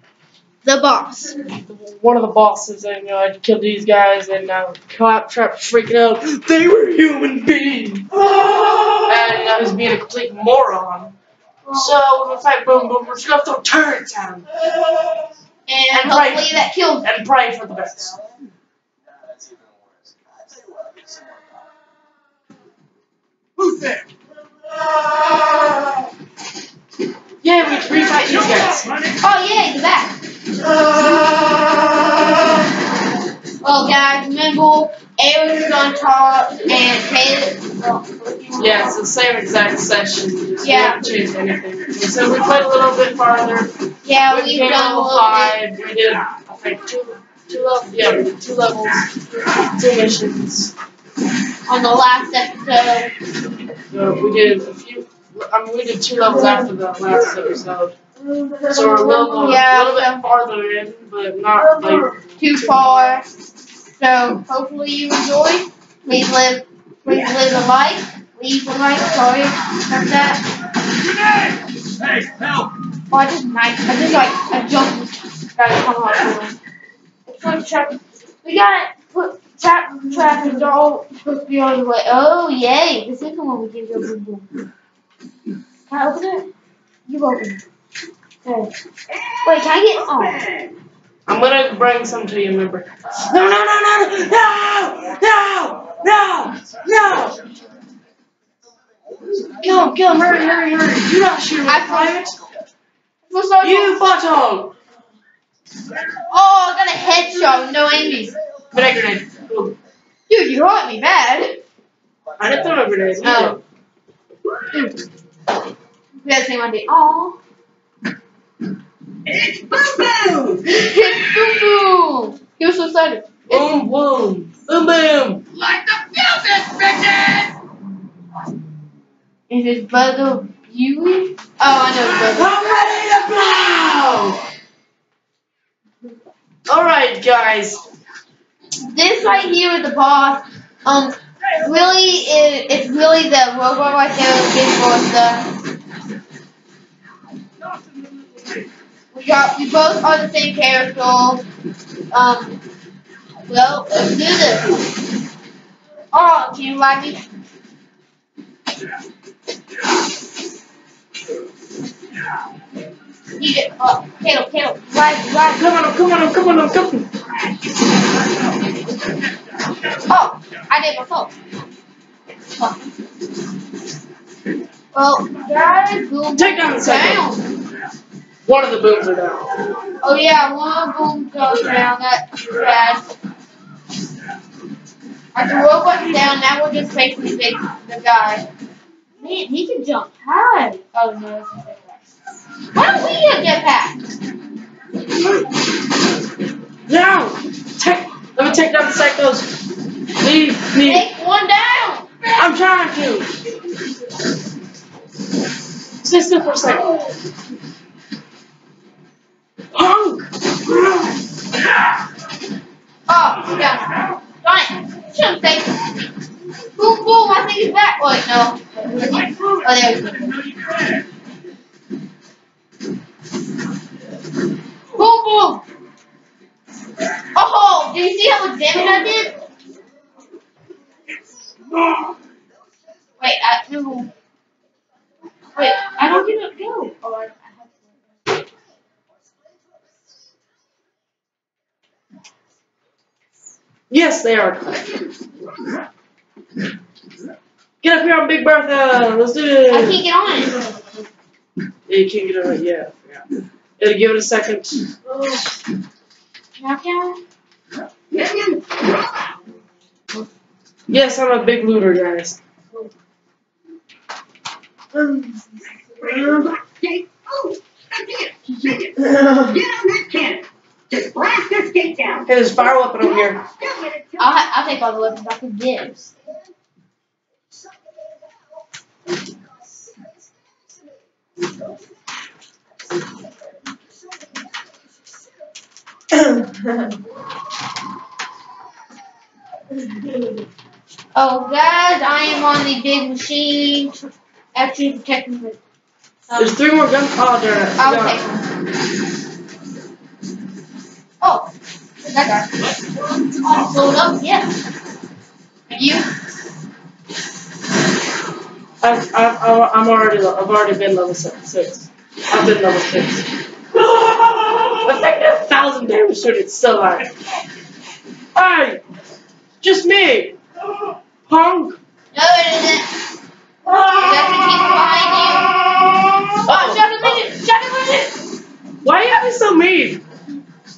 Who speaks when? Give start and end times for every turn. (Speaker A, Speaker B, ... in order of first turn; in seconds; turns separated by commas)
Speaker A: 0.6-1.4, Speaker B: 1.5-8.2, Speaker B: 8.9-11.2, Speaker B: 11.7-14.5, Speaker A: 15.7-17.1, Speaker B: 15.9-18.1, Speaker B: 27.4-28.9, Speaker A: 29.2-30.2, Speaker A: 33.6-39.0, Speaker B: 38.6-43.7, Speaker A: 40.6-41.0, Speaker A: 44.0-45.6, Speaker B: 44.3-50.7, Speaker A: 51.7-53.1, Speaker B: 53.9-58.0, Speaker B: 58.7-62.1, Speaker A: 59.3-60.2, Speaker A: 62.4-63.3, Speaker A: 64.0-70.4, Speaker A: 73.1-76.5, Speaker A: 77.3-84.5, Speaker A: 85.9-86.5, Speaker A: 87.1-87.6, Speaker A: 88.4-88.7, Speaker A: 89.4-90.4, Speaker B: 91.3-97.4, Speaker B: 99.5-102.4, Speaker A: 101.7-102.3, Speaker A: 103.3-104.0, Speaker B: 103.6-104.7, Speaker A: 106.3-108.3, Speaker B: 108.7-109.8, Speaker A: 110.3-111.6, Speaker B: 112.4-113.6, Speaker A: 113.2-113.6, Speaker A: 116.2-117.4, Speaker C: 119.3-120.8, Speaker A: 120.6-123.7, Speaker B: 123.5-125.6, Speaker C: 125.6-127.2, Speaker A: 129.5-132.6, Speaker B: 132.2-134.4, Speaker B: 136.7-137.8, Speaker A: 138.8-145.5, Speaker A: 149.1-151.4, Speaker A: 152.1-152.6, Speaker A: 153.4-154.8, Speaker A: 156.1-157.3, Speaker A: 163.4-165.6, Speaker B: 165.6-167.1, Speaker A: 170.1-171.3, Speaker A: 172.6-172.9, Speaker A: 174.9-177.5, Speaker B: 176.3-177.3, Speaker B: 178.4-179.5, Speaker A: 180.0-183.1, Speaker A: 185.3-188.4, Speaker A: 189.2-192.0, Speaker A: 192.7-194.0, Speaker B: 196.9-199.6, Speaker B: 200.2-201.1, Speaker A: 200.8-202.1, Speaker B: 202.3-203.3, Speaker B: 206.0-206.9, Speaker B: 209.7-210.3, Speaker A: 213.1-215.9, Speaker A: 216.8-220.5, Speaker A: 224.9-225.6, Speaker A: 227.3-229.3, Speaker A: 233.2-234.1, Speaker A: 235.6-237.4, Speaker B: 243.9-244.9, Speaker B: 247.8-250.0, Speaker A: 249.7-250.9, Speaker B: 251.9-253.2, Speaker B: 253.8-254.8, Speaker A: 256.6-257.2, Speaker C: 258.1-259.0, Speaker B: 260.9-262.4, Speaker C: 266.0-272.3, Speaker B: 272.3-273.4, Speaker C: 273.0-274.2, Speaker A: 274.2-276.1, Speaker A: 291.1-295.6, Speaker B: 296.3-298.2, Speaker A: 297.8-298.4, Speaker A: 301.2-301.5, Speaker A: 302.0-302.5, Speaker A: 303.4-304.6, Speaker A: 305.7-306.1, Speaker B: 308.8-317.1, Speaker B: 318.4-318.8, Speaker B: 319.6-320.4, Speaker B: 321.3-321.8, Speaker A: 322.1-322.9, Speaker A: 323.9-325.5, Speaker B: 326.0-327.2, Speaker A: 326.5-328.2, Speaker B: 328.8-330.0